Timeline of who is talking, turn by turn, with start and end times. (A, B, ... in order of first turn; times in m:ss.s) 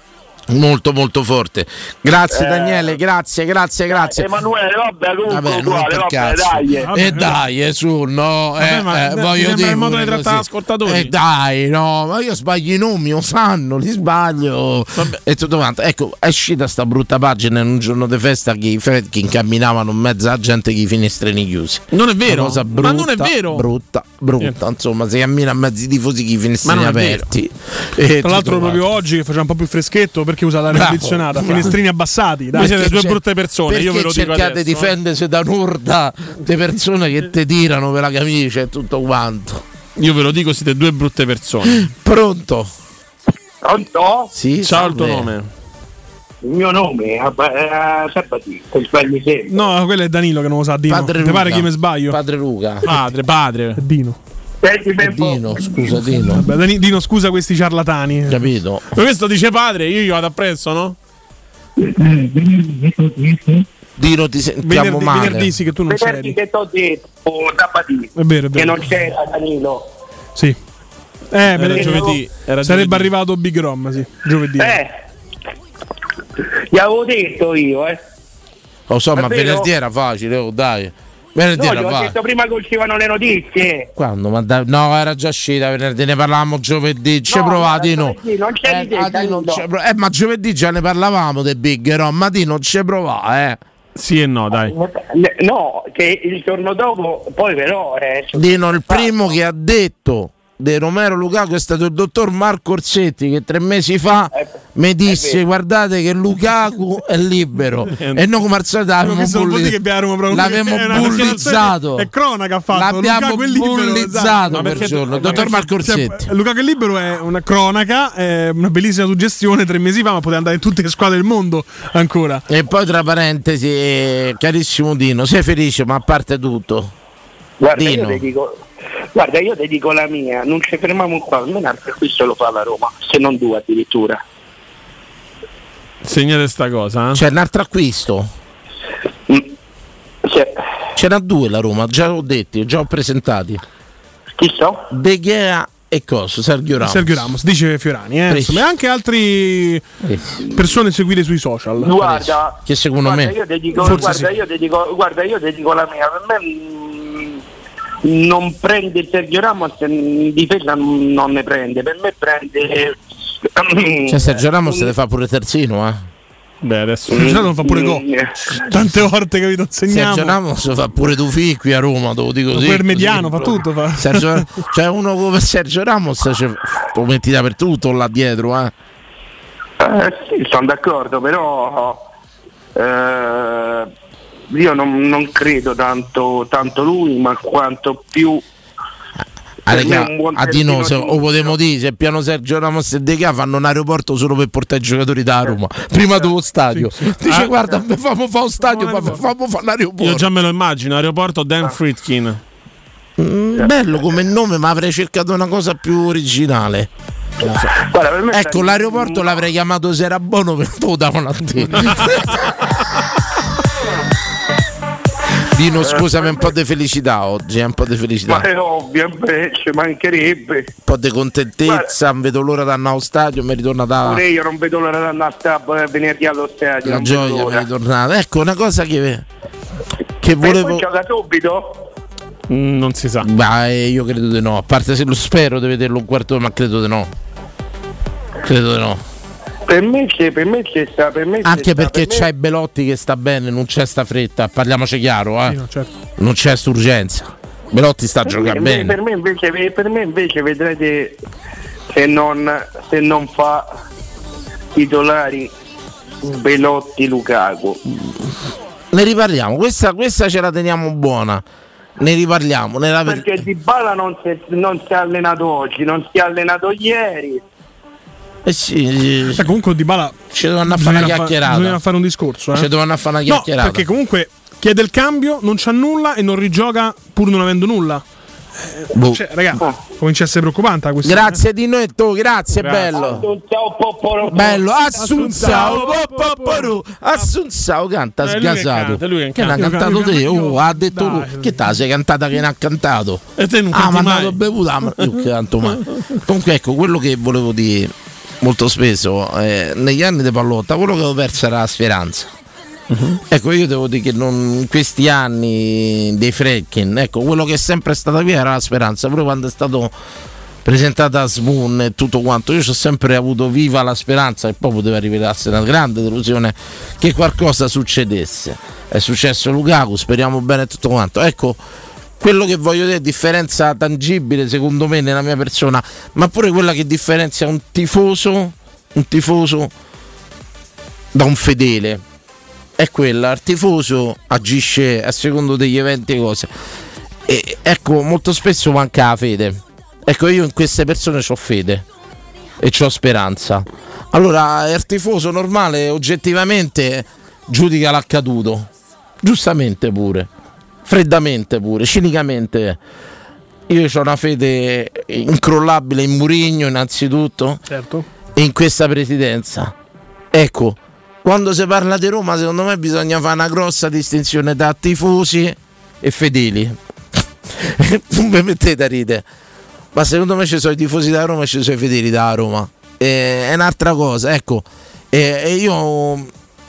0:00.5-0:04.3 A
0:02.3-0:03.0 B
0:03.9-0:07.0 B
0:05.3-0:28.8 A
0:06.8-0:07.4 C
0:08.6-0:11.1 D
0:21.9-0:23.7 D
0:26.6-0:27.2 D
0:28.2-0:32.9 C
0:30.7-0:31.7 A
0:32.5-0:34.9 D
0:32.6-0:39.6 A
0:40.0-0:41.9 D
0:41.7-0:42.7 A
0:43.6-0:44.3 E
0:44.3-0:45.3 A
0:44.6-0:45.5 D
0:46.4-0:49.5 E
0:49.5-0:52.2 C
0:50.9-0:52.9 A
0:52.8-0:53.8 D
0:53.8-0:54.2 C
0:54.6-0:55.8 E
0:55.0-0:56.5 A
0:56.3-0:58.5 C
0:58.3-0:58.9 A
0:58.9-1:01.0 D
1:01.9-1:03.5 E
1:04.0-1:05.5 A
1:04.6-1:06.4 C
1:05.9-1:09.9 E
1:08.2-1:08.9 C
1:11.3-1:14.8 C
1:11.5-1:13.1 D
1:11.8-1:12.1 E
1:14.6-1:14.9 E
1:16.7-1:18.0 E
1:18.9-1:22.2 A
1:19.2-1:19.7 E
1:21.5-1:23.9 E
1:24.0-1:33.6 A
1:27.3-1:29.6 E
1:34.0-1:34.8 D
1:34.7-1:39.2 E
1:38.3-1:52.1 A
1:45.1-1:45.4 E
1:48.0-1:48.2 D
1:49.0-2:02.4 C
1:50.9-1:51.5 D
1:52.7-1:56.3 A
1:54.5-1:55.6 D
2:02.5-2:06.9 A
2:07.6-2:08.6 E
2:07.8-2:08.2 A
2:09.1-2:14.2 E
2:16.0-2:17.2 D
2:17.1-2:18.3 A
2:20.2-2:20.6 E
2:21.0-2:23.6 A
2:24.4-2:24.9 E
2:24.9-2:27.2 A
2:26.8-2:29.9 C
2:28.3-2:28.7 A
2:30.0-2:30.4 A
2:30.5-2:32.0 C
2:31.8-2:37.4 E
2:32.0-2:34.2 A
2:33.8-2:34.3 C
2:38.0-2:44.9 E
2:44.1-2:46.0 A
2:46.6-2:47.4 D
2:47.1-2:48.3 E
2:47.2-2:48.0 C
2:48.6-2:50.4 C
2:49.9-2:58.7 A
2:52.5-2:54.5 C
2:59.8-3:02.0 E
3:02.8-3:03.9 E
3:04.5-3:08.4 E
3:09.7-3:20.3 A
3:09.7-3:11.5 E
3:16.7-3:17.6 C
3:18.6-3:19.3 C
3:20.0-3:22.4 D
3:23.2-3:26.9 A
3:27.4-3:27.7 A
3:27.6-3:29.4 E
3:28.3-3:32.4 A
3:35.5-3:38.5 A
3:35.8-3:36.5 E
3:38.3-3:40.7 E
3:40.8-3:44.2 A
3:41.7-3:41.9 E
3:44.0-3:47.7 E
3:46.8-3:49.2 A
3:50.2-3:50.9 A
3:50.4-3:51.9 E
3:52.5-3:53.3 D
3:53.2-3:57.1 A
3:58.4-3:59.0 A
3:59.7-4:02.3 E
4:01.4-4:05.6 A
4:05.5-4:05.9 C
4:06.2-4:09.0 A
4:08.2-4:11.2 E
4:11.9-4:13.7 E
4:14.7-4:15.5 E
4:16.2-4:17.8 E
4:18.9-4:21.4 A
4:22.0-4:23.4 A
4:23.0-4:27.4 E
4:28.4-4:29.6 A
4:29.4-4:32.7 C
4:30.3-4:31.8 A
4:32.5-4:33.9 A
4:33.3-4:38.0 C
4:38.6-4:41.4 C
4:38.9-4:39.2 A
4:41.0-4:43.2 A
4:42.5-4:43.0 D
4:42.9-4:44.7 E
4:44.3-5:02.3 A
4:44.9-4:46.7 C
4:48.2-4:49.8 D
4:49.6-4:51.7 C
4:53.4-4:54.4 D
5:02.9-5:03.2 D
5:03.3-5:09.9 A
5:10.6-5:21.6 A
5:22.2-5:29.7 A
5:31.1-5:32.0 A
5:32.8-5:36.5 A
5:37.3-5:41.8 A
5:42.6-5:48.7 A
5:49.2-5:50.3 A
5:50.9-5:52.8 A
5:53.7-5:57.6 A
5:57.7-5:58.1 C
5:58.4-5:59.7 A
6:00.3-6:06.8 A
6:07.5-6:09.2 A
6:09.9-6:16.3 A